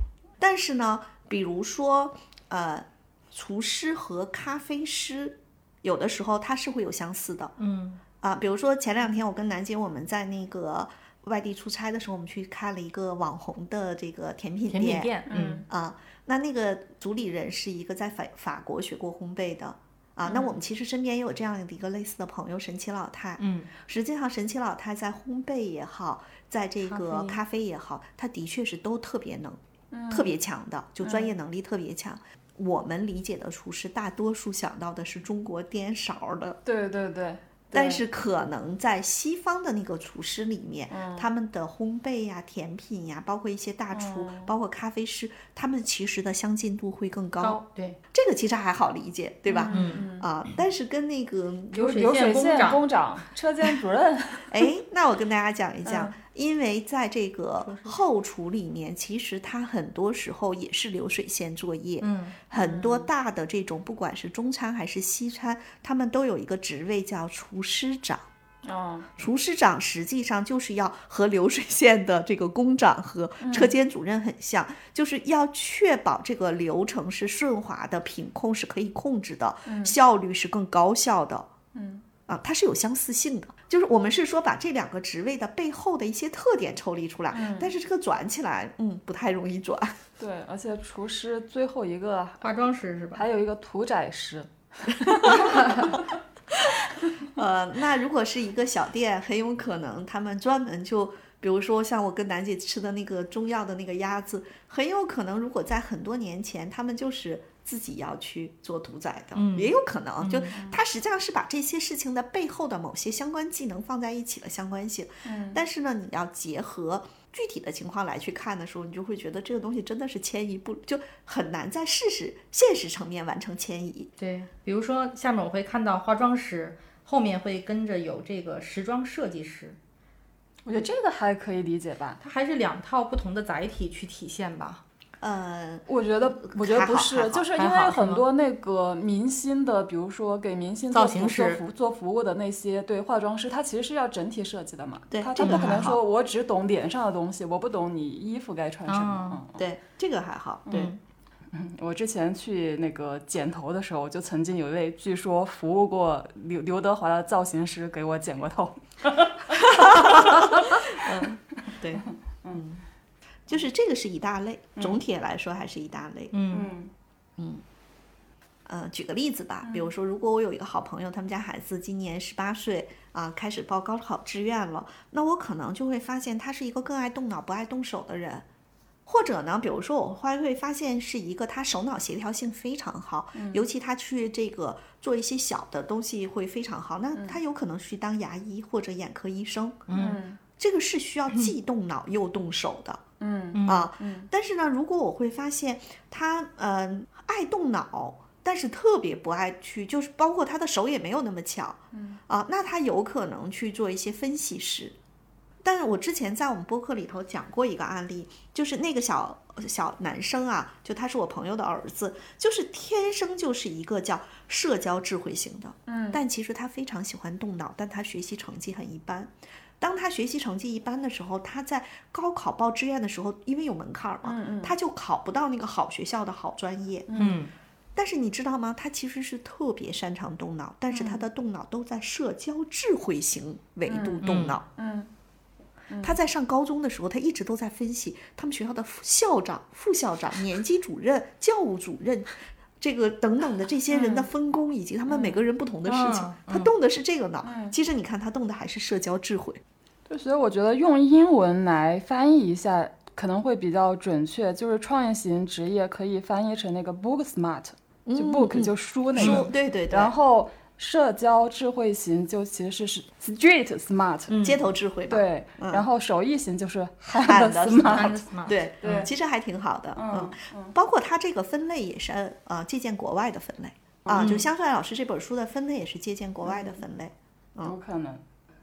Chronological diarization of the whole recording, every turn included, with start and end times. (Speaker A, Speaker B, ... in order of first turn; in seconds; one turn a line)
Speaker A: 0.4-7.5
Speaker B: 7.6-8.0
Speaker A: 8.2-15.1
Speaker B: 14.7-15.6
Speaker C: 15.3-15.7
Speaker A: 15.7-36.6
Speaker B: 23.4-23.7
Speaker B: 26.8-27.4
Speaker C: 29.9-30.4
Speaker C: 31.0-31.3
Speaker C: 36.6-38.0
Speaker A: 37.7-47.6
Speaker C: 40.9-41.3
Speaker C: 43.9-44.5
Speaker B: 47.4-48.0
Speaker A: 48.1-51.8
Speaker C: 49.5-50.3
Speaker B: 49.7-50.1
Speaker B: 51.7-52.8
Speaker C: 51.7-54.7
Speaker A: 54.5-68.3
Speaker C: 55.8-56.1
Speaker B: 57.6-58.0
Speaker B: 62.0-62.4
Speaker C: 62.5-63.1
Speaker C: 68.6-69.1
Speaker A: 69.2-81.5
Speaker C: 73.4-73.7
Speaker C: 79.7-79.9
Speaker C: 81.7-82.0
Speaker A: 82.3-90.0
Speaker C: 87.3-87.7
Speaker C: 90.2-92.5
Speaker B: 92.4-93.2
Speaker C: 93.1-96.0
Speaker A: 95.0-95.8
Speaker A: 97.2-124.1
Speaker B: 109.3-110.5
Speaker C: 110.5-110.8
Speaker C: 115.2-115.6
Speaker B: 124.2-129.8
Speaker C: 130.7-132.2
Speaker B: 132.2-134.8
Speaker A: 135.2-135.9
Speaker C: 135.9-149.6
Speaker A: 136.4-137.5
Speaker B: 137.5-138.2
Speaker B: 140.9-141.6
Speaker A: 145.1-146.0
Speaker B: 145.4-145.9
Speaker B: 148.9-149.4
Speaker A: 149.5-150.9
Speaker C: 150.7-150.9
Speaker B: 150.7-151.0
Speaker C: 151.5-160.8
Speaker A: 159.8-162.8
Speaker B: 161.0-161.3
Speaker A: 163.5-166.3
Speaker B: 166.3-166.7
Speaker C: 166.5-166.9
Speaker A: 167.4-167.6
Speaker A: 168.7-178.4
Speaker C: 169.6-169.9
Speaker A: 179.1-189.9
Speaker C: 183.3-183.6
Speaker B: 189.9-190.2
Speaker C: 189.9-190.4
Speaker A: 190.6-193.0
Speaker C: 193.2-194.3
Speaker B: 193.5-193.9
Speaker A: 193.6-204.9
Speaker C: 201.9-202.2
Speaker A: 205.6-227.1
Speaker C: 215.9-216.2
Speaker C: 224.2-224.7
Speaker C: 227.1-227.4
Speaker B: 227.1-227.5
Speaker A: 227.9-234.6
Speaker C: 230.9-231.2
Speaker C: 233.9-235.1
Speaker B: 234.2-234.6
Speaker C: 235.9-236.2
Speaker A: 236.0-249.6
Speaker C: 243.9-244.3
Speaker B: 245.8-246.7
Speaker C: 247.4-247.7
Speaker C: 250.1-264.4
Speaker A: 258.1-260.1
Speaker B: 259.2-259.4
Speaker B: 264.3-264.6
Speaker A: 264.4-265.8
Speaker C: 265.1-268.2
Speaker A: 267.2-277.7
Speaker B: 267.8-269.1
Speaker C: 268.8-269.1
Speaker C: 269.9-270.7
Speaker C: 274.1-274.4
Speaker B: 274.1-274.5
Speaker C: 276.4-276.8
Speaker C: 277.6-278.2